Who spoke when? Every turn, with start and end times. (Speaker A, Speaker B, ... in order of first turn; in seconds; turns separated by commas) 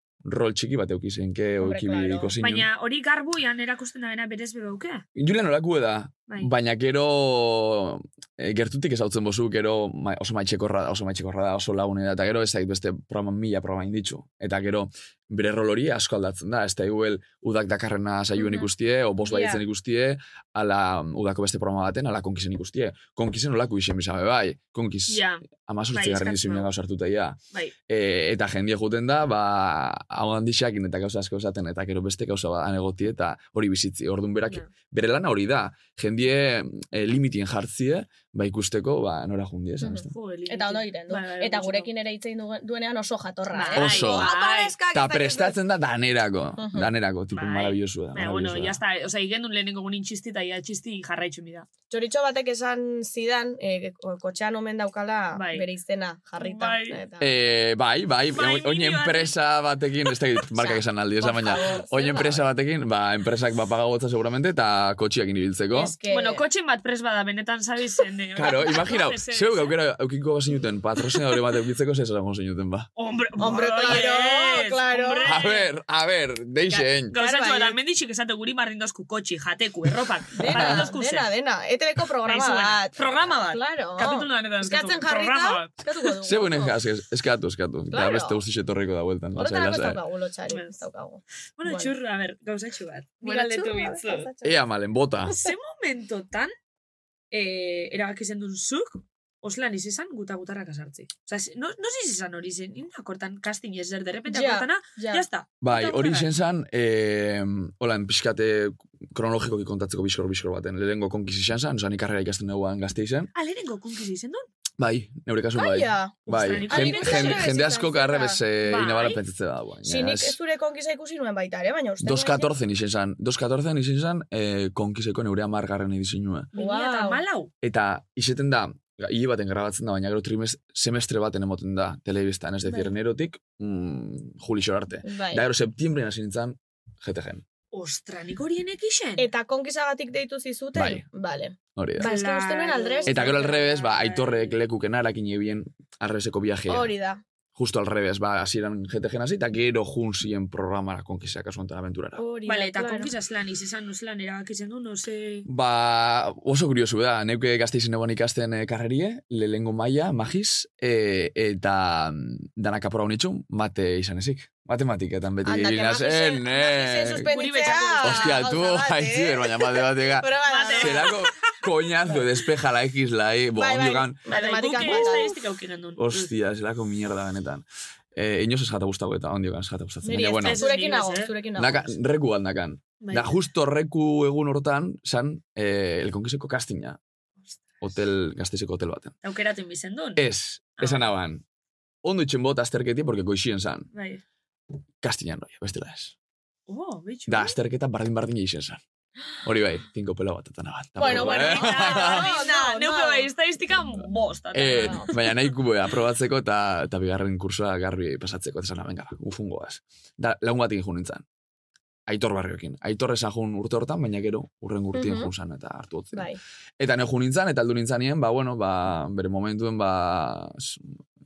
Speaker A: 0.2-2.7, Speaker B: 1.6-2.3, Speaker C: 2.4-5.0, Speaker A: 5.1-27.4, Speaker B: 19.2-19.6, Speaker C: 25.1-26.7, Speaker A: 27.9-40.1, Speaker B: 39.8-45.6, Speaker C: 40.1-41.9, Speaker C: 43.5-44.7, Speaker A: 43.8-44.3, Speaker A: 44.9-48.8, Speaker B: 46.6-46.9, Speaker C: 47.3-51.7, Speaker B: 51.9-57.3, Speaker C: 55.3-55.7, Speaker C: 56.4-57.0, Speaker A: 57.2-65.9, Speaker C: 58.3-59.3, Speaker B: 61.2-62.4, Speaker B: 65.7-66.4, Speaker C: 66.1-69.8, Speaker A: 68.3-72.9, Speaker C: 73.0-75.7, Speaker B: 73.4-75.3, Speaker A: 75.2-77.1, Speaker C: 76.7-81.3, Speaker B: 77.1-77.8, Speaker B: 80.3-86.7, Speaker A: 80.5-80.9, Speaker C: 82.2-85.8, Speaker A: 86.2-90.0, Speaker B: 87.9-88.4, Speaker B: 89.3-91.9, Speaker C: 90.5-90.8, Speaker C: 91.6-94.3, Speaker B: 93.2-94.6, Speaker A: 94.4-95.4, Speaker C: 95.3-96.5, Speaker C: 97.3-106.3, Speaker B: 104.3-105.2, Speaker A: 105.6-113.3, Speaker C: 113.3-114.4, Speaker A: 114.8-120.4, Speaker B: 115.5-118.4, Speaker C: 116.3-117.5, Speaker C: 118.6-119.2, Speaker B: 119.8-122.5, Speaker A: 122.0-126.5, Speaker C: 126.5-127.5, Speaker B: 126.5-127.2, Speaker A: 127.6-137.4, Speaker B: 135.0-135.4, Speaker C: 137.7-139.3, Speaker B: 139.2-143.4, Speaker A: 140.7-141.0, Speaker A: 141.8-142.1, Speaker C: 142.0-144.6, Speaker A: 143.1-146.9, Speaker B: 146.7-147.2, Speaker A: 147.5-152.2, Speaker B: 152.2-153.1, Speaker C: 152.4-155.4, Speaker A: 155.4-167.2, Speaker B: 165.4-171.1, Speaker C: 167.2-168.3, Speaker A: 168.0-174.2, Speaker C: 170.4-171.1, Speaker B: 173.6-175.3, Speaker C: 174.3-176.3, Speaker A: 176.0-180.6, Speaker B: 180.0-181.9, Speaker C: 180.4-181.3, Speaker A: 181.6-187.0, Speaker C: 183.0-183.4, Speaker A: 187.8-189.1, Speaker C: 189.2-190.2, Speaker A: 190.2-191.4, Speaker C: 190.8-191.1, Speaker A: 192.0-193.9, Speaker C: 193.9-194.2, Speaker A: 195.0-196.2, Speaker C: 196.7-197.6, Speaker A: 197.3-198.8, Speaker A: 199.4-202.3, Speaker B: 201.0-203.3, Speaker C: 201.0-205.1, Speaker A: 204.5-211.2, Speaker A: 212.1-216.3, Speaker B: 214.9-215.3, Speaker B: 216.1-216.4, Speaker A: 216.8-221.0